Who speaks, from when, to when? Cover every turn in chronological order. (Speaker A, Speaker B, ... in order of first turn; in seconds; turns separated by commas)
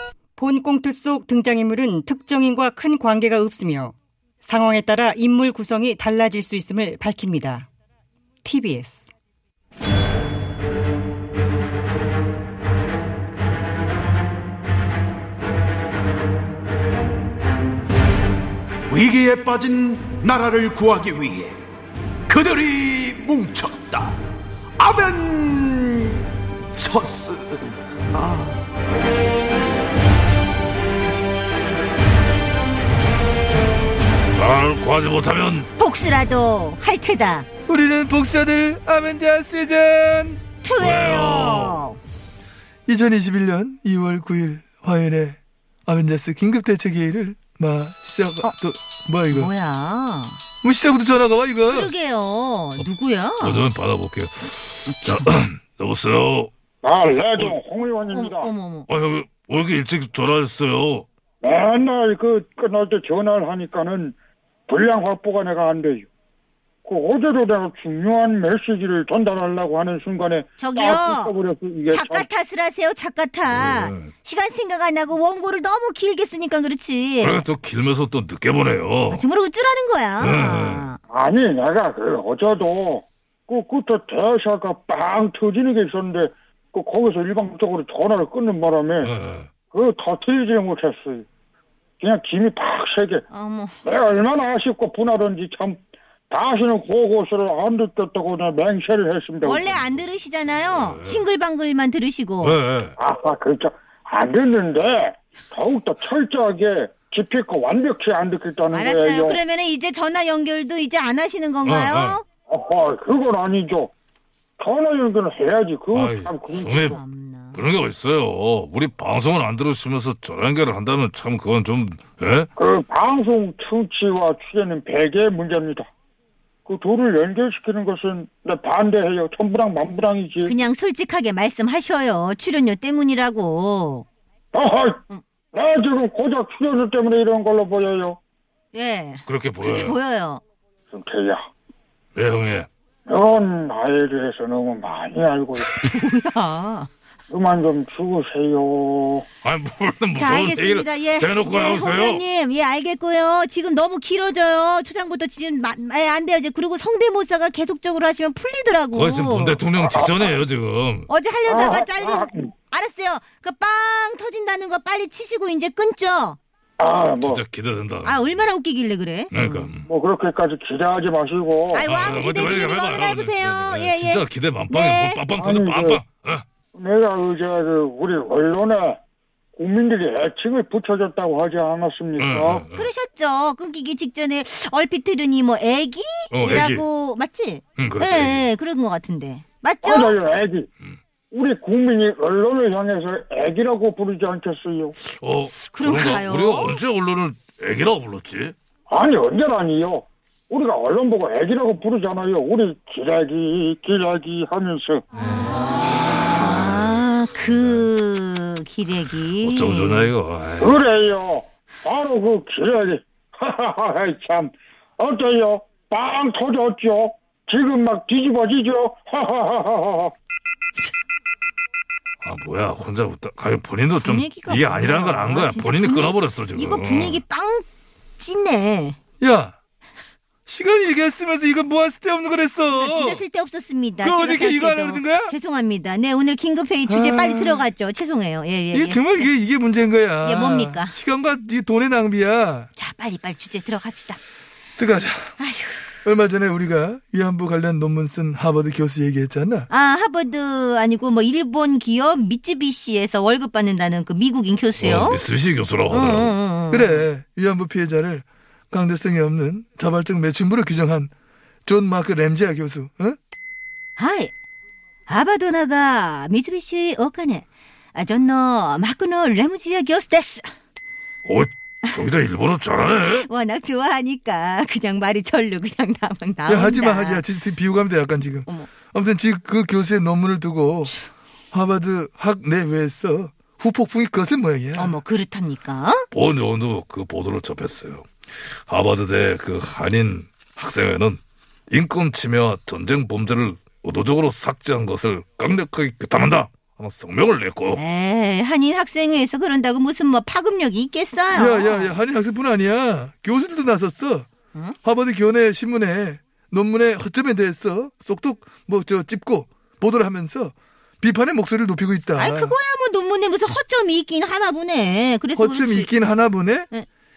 Speaker A: 0.4-7.7, Speaker A: 8.4-9.1, Speaker B: 18.9-21.6, Speaker B: 22.3-24.2, Speaker B: 24.8-28.5, Speaker C: 34.3-35.7, Speaker D: 35.8-37.5, Speaker E: 37.7-40.4, Speaker D: 40.6-42.0, Speaker C: 40.8-41.8, Speaker E: 42.9-49.5, Speaker D: 49.3-50.4, Speaker E: 50.6-51.9, Speaker D: 51.7-53.6, Speaker C: 53.4-56.5, Speaker D: 54.9-55.3, Speaker F: 56.8-58.5, Speaker D: 58.0-58.9, Speaker C: 58.9-61.1, Speaker F: 61.4-64.1, Speaker F: 64.7-66.1, Speaker F: 66.8-72.3, Speaker D: 70.6-71.3, Speaker D: 71.9-77.5, Speaker C: 73.5-74.1, Speaker C: 77.2-79.2, Speaker D: 79.1-81.0, Speaker C: 80.2-80.8, Speaker F: 81.1-89.1, Speaker C: 89.0-89.5, Speaker F: 89.7-91.2, Speaker F: 92.0-93.2, Speaker D: 93.3-93.8, Speaker F: 93.8-95.8, Speaker F: 96.3-99.8, Speaker D: 99.4-102.6, Speaker C: 100.6-101.2, Speaker C: 102.4-102.9, Speaker F: 103.0-109.4, Speaker D: 108.7-112.2, Speaker C: 111.6-112.2, Speaker F: 112.5-113.9, Speaker F: 114.6-117.0, Speaker C: 115.9-117.0, Speaker D: 116.7-117.6, Speaker C: 117.5-122.5, Speaker F: 122.5-125.9, Speaker F: 126.7-130.5, Speaker D: 130.4-134.1, Speaker F: 134.5-135.0, Speaker F: 135.5-138.2, Speaker D: 138.7-140.4, Speaker C: 139.2-140.0, Speaker F: 140.9-141.4, Speaker C: 142.1-142.7, Speaker F: 143.1-145.8, Speaker D: 145.8-146.9, Speaker F: 147.3-149.2, Speaker C: 149.4-152.2, Speaker D: 150.2-159.6, Speaker C: 158.9-161.1, Speaker F: 159.8-160.3, Speaker D: 161.1-166.4, Speaker F: 161.4-162.5, Speaker F: 166.8-167.4, Speaker C: 167.2-168.3, Speaker D: 168.0-169.7, Speaker C: 169.3-169.8, Speaker F: 169.9-171.9, Speaker D: 171.7-175.2, Speaker C: 171.8-176.4, Speaker F: 175.3-176.0, Speaker F: 176.7-179.0, Speaker F: 179.6-182.6, Speaker C: 182.2-182.9, Speaker D: 182.7-190.2, Speaker C: 186.3-186.8, Speaker C: 187.8-188.4, Speaker F: 189.8-190.7, Speaker F: 191.3-194.9, Speaker C: 195.1-198.5, Speaker D: 195.6-196.8, Speaker F: 198.9-205.0, Speaker D: 205.9-210.1, Speaker C: 207.5-207.8, Speaker C: 209.4-210.8, Speaker F: 210.6-220.1, Speaker C: 222.2-227.2, Speaker D: 224.0-229.0, Speaker E: 229.2-229.5, Speaker E: 230.4-233.2, Speaker D: 232.7-239.3, Speaker E: 234.0-235.3, Speaker E: 236.8-237.7, Speaker E: 238.7-242.7, Speaker D: 240.2-240.9, Speaker D: 242.8-244.2, Speaker E: 244.8-245.3, Speaker D: 245.4-245.8, Speaker E: 246.0-249.7, Speaker D: 249.7-255.2, Speaker C: 254.8-256.4, Speaker D: 255.9-257.1, Speaker E: 256.7-261.1, Speaker E: 261.7-263.2, Speaker D: 264.0-264.3, Speaker D: 265.1-270.5, Speaker C: 271.2-273.3, Speaker D: 273.0-277.2, Speaker E: 276.5-280.9, Speaker E: 281.5-285.0, Speaker D: 284.8-286.1, Speaker C: 286.1-288.1, Speaker C: 288.7-297.8, Speaker D: 297.8-302.0, Speaker E: 301.3-304.3, Speaker E: 304.8-312.6, Speaker D: 312.2-315.9, Speaker E: 315.4-316.7